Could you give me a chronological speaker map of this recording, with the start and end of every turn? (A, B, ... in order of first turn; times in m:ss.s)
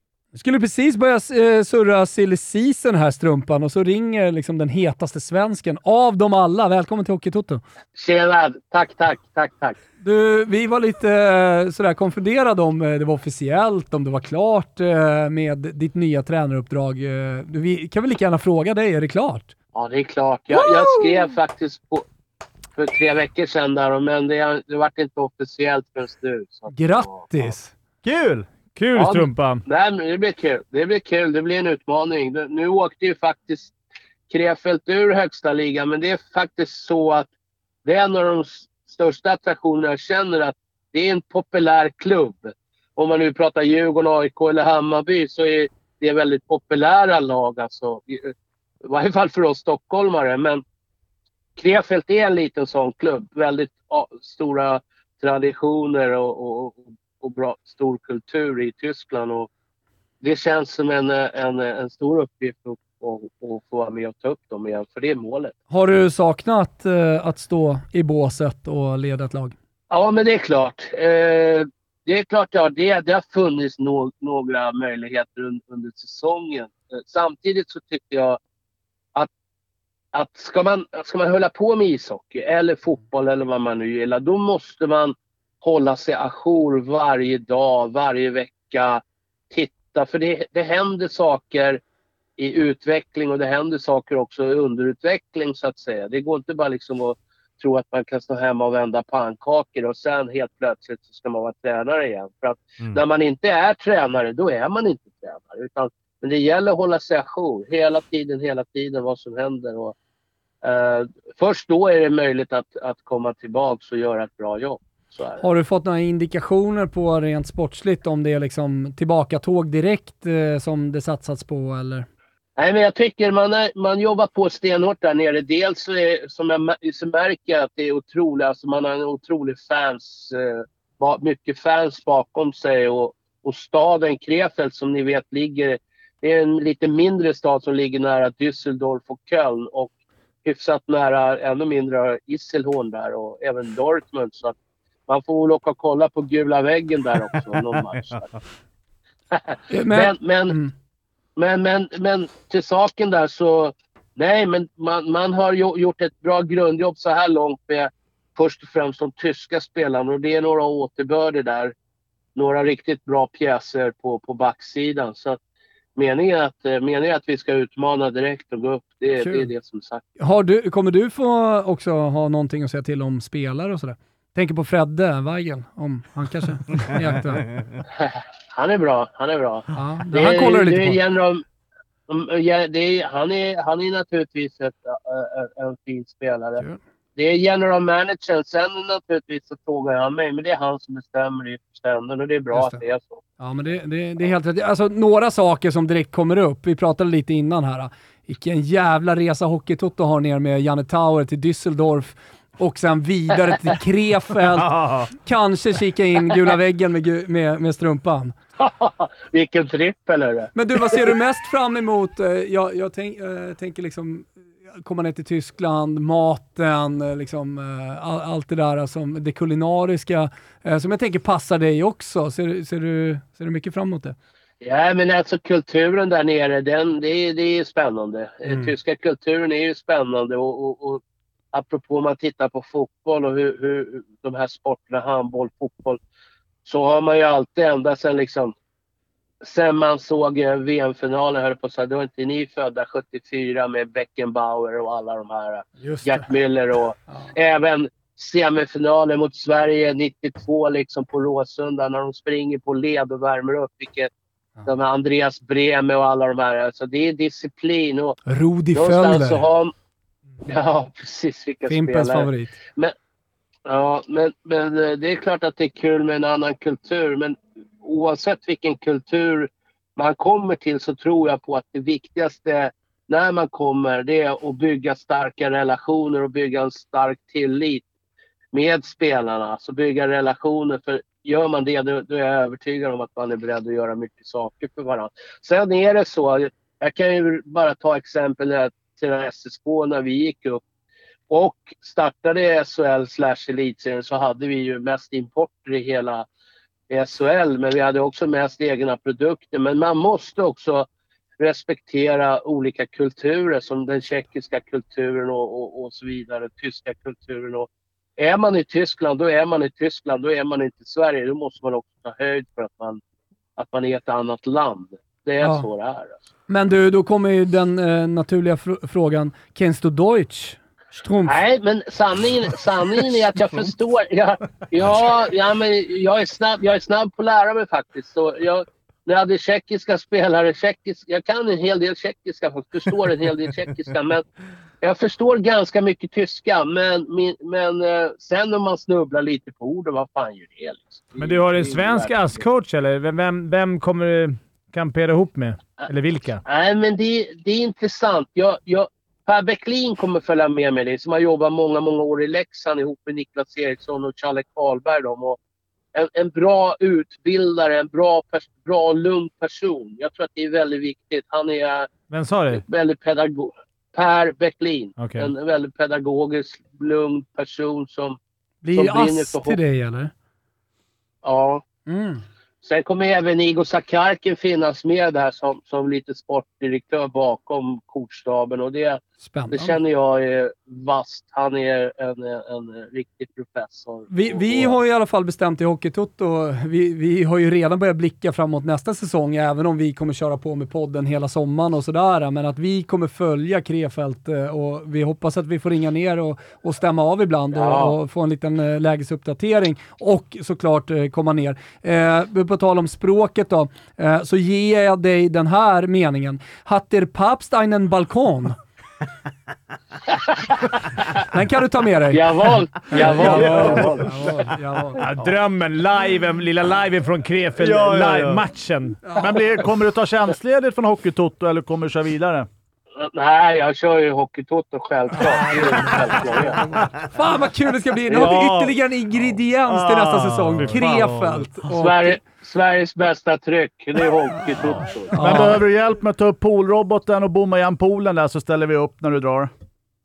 0:00.3-0:07.6 A
0:08.0-0:09.8 B
0:10.0-0:19.5 A
0:19.7-0:22.0 B
0:20.5-0:21.1 A
0:22.7-0:27.2 B
0:26.7-0:27.7 A
0:28.0-0:28.5 C
0:28.8-0:29.6 D
0:28.9-0:33.7 B
0:34.3-0:37.3 B
0:37.8-0:48.3 B
0:48.8-0:50.6 B
0:51.6-0:59.5 B
1:00.2-1:05.5 B
1:05.7-1:09.5 A
1:09.9-1:18.4 B
1:20.1-1:31.8 B
1:32.4-1:49.9 B
1:50.6-1:55.4 B
1:55.4-2:02.1 A
2:02.6-2:19.9 B
2:20.4-2:24.5 B
2:25.1-2:28.3 B
2:29.3-2:30.6 B
2:29.7-2:30.7 A
2:31.4-2:41.7 B
2:42.3-2:45.4 B
2:45.9-2:50.0 B
2:49.1-2:49.5 A
2:50.2-2:57.5 A
2:56.9-2:57.6 C
2:58.0-3:01.4 B
2:59.7-3:01.0 A
3:02.1-3:06.6 B
3:07.2-3:13.2 B
3:12.5-3:12.8 A
3:13.4-3:28.3 A
3:24.6-3:25.1 C
3:28.6-3:30.9 B
3:30.5-3:44.2 A
3:44.6-3:51.0 B
3:48.5-3:48.7 A
3:51.5-3:56.0 B
3:56.6-3:58.5 B
3:59.4-4:14.1 B
4:05.8-4:06.4 A
4:14.6-4:18.2 B
4:18.3-4:19.5 A
4:18.7-4:19.7 B
4:20.4-4:22.9 B
4:21.7-4:22.6 A
4:23.6-4:37.8 B
4:38.5-4:50.6 B
4:51.3-4:56.2 B
4:56.9-5:00.9 B
5:01.4-5:13.0 B
5:13.6-5:16.2 B
5:15.4-5:15.6 A
5:16.5-5:21.4 A
5:21.2-5:34.2 B
5:34.8-5:42.4 B
5:41.2-5:46.4 D
5:46.4-5:55.4 B
5:55.9-6:01.9 B
6:02.1-6:02.6 D
6:02.6-6:08.2 B
6:05.0-6:05.3 D
6:08.6-6:10.1 A
6:08.7-6:09.6 B
6:11.2-6:11.6 B
6:11.9-6:12.2 A
6:12.6-6:24.7 B
6:19.2-6:19.8 A
6:24.1-6:48.6 A
6:37.5-6:38.0 B
6:50.1-6:50.5 B
6:51.2-6:55.0 A
6:52.1-6:54.1 B
6:53.2-6:53.8 D
6:53.2-6:54.0 C
6:55.0-6:59.1 D
6:57.6-6:58.4 C
6:59.2-7:02.5 E
7:03.0-7:06.6 B
7:05.2-7:12.2 A
7:08.1-7:11.6 C
7:11.7-7:15.4 B
7:15.1-7:15.6 A
7:15.2-7:19.5 E